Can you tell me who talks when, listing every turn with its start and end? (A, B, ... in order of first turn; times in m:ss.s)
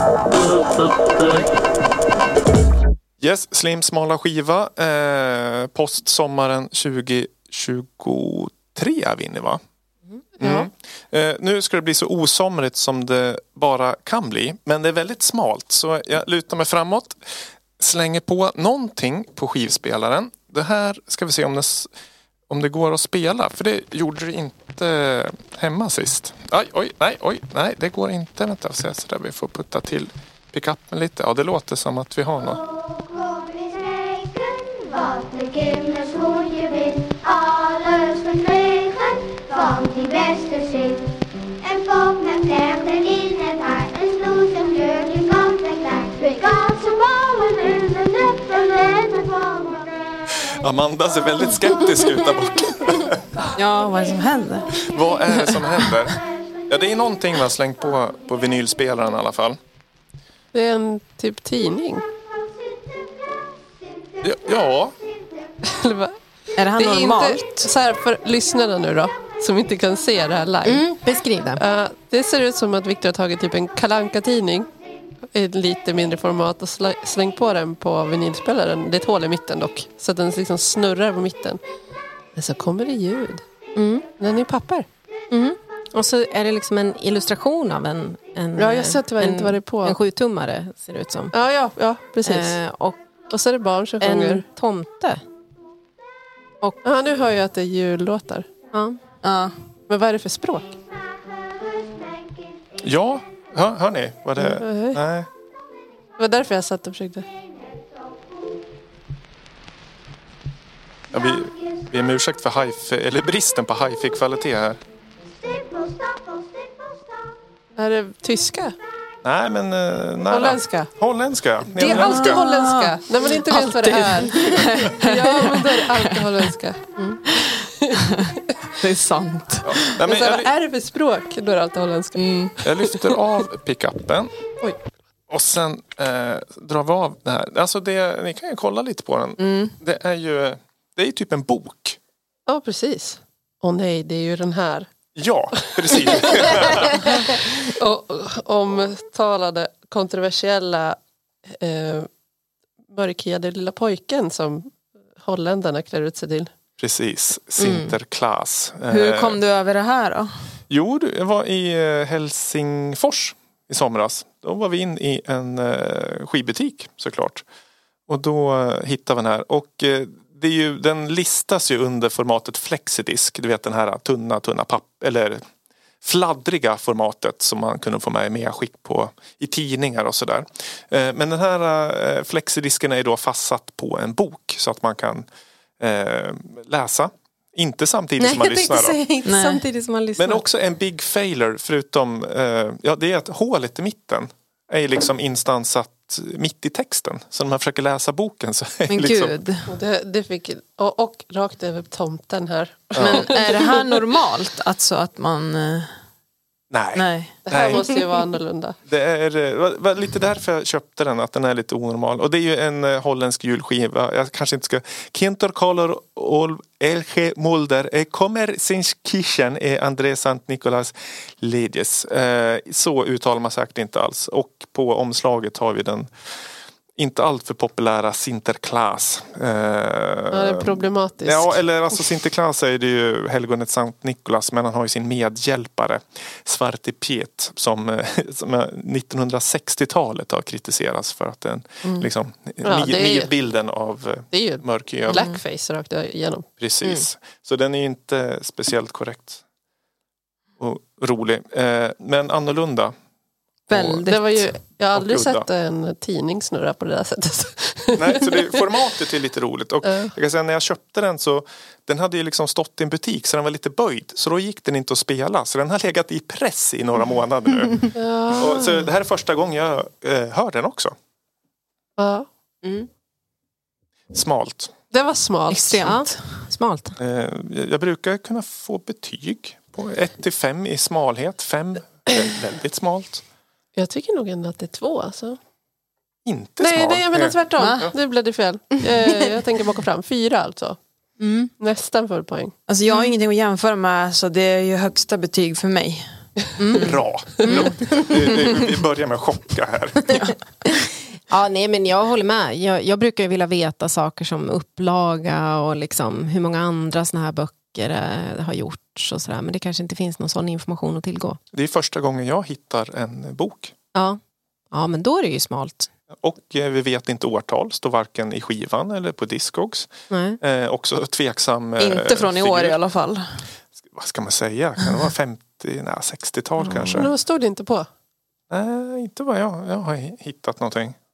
0:03.2-0:09.6 A
0:10.4-0:17.2 A
0:10.4-0:10.7 B
0:17.8-0:21.9 A
0:22.5-0:32.6 A
0:32.9-0:41.0 C
0:41.7-0:49.8 C
0:50.3-0:53.2 A
0:53.6-0:56.0 D
0:54.8-0:56.2 A
0:56.7-0:59.6 A
1:00.5-1:02.0 E
1:04.2-1:05.0 A
1:05.6-1:06.2 E
1:06.6-1:07.7 D
1:06.7-1:10.8 E
1:10.6-1:11.6 B
1:11.6-1:14.7 E
1:15.3-1:21.6 E
1:22.4-1:23.4 E
1:23.8-1:24.1 B
1:24.1-1:24.9 E
1:25.3-1:31.3 B
1:28.6-1:30.0 E
1:31.3-1:32.6 E
1:32.2-1:33.0 B
1:33.3-1:34.5 E
1:34.0-1:35.2 B
1:36.8-1:38.5 E
1:38.7-1:39.0 B
1:39.2-1:39.5 D
1:39.9-1:40.8 E
1:42.8-1:45.3 A
1:44.4-1:45.0 E
1:46.2-1:47.3 E
1:51.1-1:54.8 A
1:55.8-1:56.4 C
1:57.8-1:58.7 E
1:59.2-2:02.4 A
2:00.3-2:00.9 E
2:01.7-2:07.0 E
2:01.8-2:06.1 D
2:07.7-2:08.5 E
2:08.8-2:09.9 D
2:09.6-2:10.5 A
2:10.0-2:13.5 E
2:12.2-2:12.6 D
2:12.6-2:14.3 A
2:15.3-2:22.0 A
2:19.4-2:19.7 D
2:22.5-2:24.9 E
2:25.2-2:27.0 A
2:25.6-2:31.0 E
2:31.5-2:32.1 E
2:32.9-2:36.5 E
2:36.8-2:39.4 A
2:37.6-2:38.0 B
2:38.9-2:40.3 D
2:40.7-2:47.4 A
2:48.1-2:55.4 A
2:56.0-3:05.3 A
3:05.8-3:09.0 A
3:08.2-3:10.4 B
3:09.2-3:09.7 D
3:10.2-3:19.4 A
3:18.9-3:19.6 D
3:19.7-3:23.7 E
3:22.9-3:23.3 A
3:23.0-3:25.9 D
3:26.7-3:27.9 A
3:27.0-3:27.4 D
3:27.5-3:28.8 E
3:28.9-3:46.1 A
3:47.0-4:05.3 A
3:50.3-3:52.0 E
4:02.6-4:03.3 E
4:04.3-4:06.5 E
4:05.1-4:05.4 D
4:06.6-4:09.4 A
4:10.6-4:12.9 A
4:13.7-4:14.1 A
4:13.7-4:14.5 D
4:14.0-4:19.0 E
4:14.9-4:15.5 A
4:18.0-4:31.0 A
4:19.8-4:20.1 E
4:28.0-4:28.9 E
4:32.0-4:32.3 E
4:34.1-4:34.7 A
4:34.9-4:36.0 E
4:35.5-4:36.4 D
4:35.8-4:37.0 B
4:37.0-4:43.2 A
4:43.8-4:45.4 E
4:46.3-4:48.0 A
4:46.6-4:50.8 E
4:47.6-4:47.9 D
4:51.2-4:51.5 B
4:51.6-4:52.6 E
4:52.7-4:56.0 D
4:52.9-4:53.1 B
4:56.6-4:56.9 B
4:56.7-4:57.4 D
4:56.8-5:00.2 A
4:57.5-4:58.2 B
5:00.1-5:00.4 D
5:01.3-5:11.4 B
5:11.5-5:13.7 A
5:13.9-5:14.2 B
5:14.7-5:15.9 B
5:16.1-5:22.8 A
5:20.1-5:20.4 B
5:21.8-5:23.2 D
5:23.8-5:27.1 A
5:26.6-5:27.1 B
5:26.9-5:27.9 E
5:28.5-5:31.0 A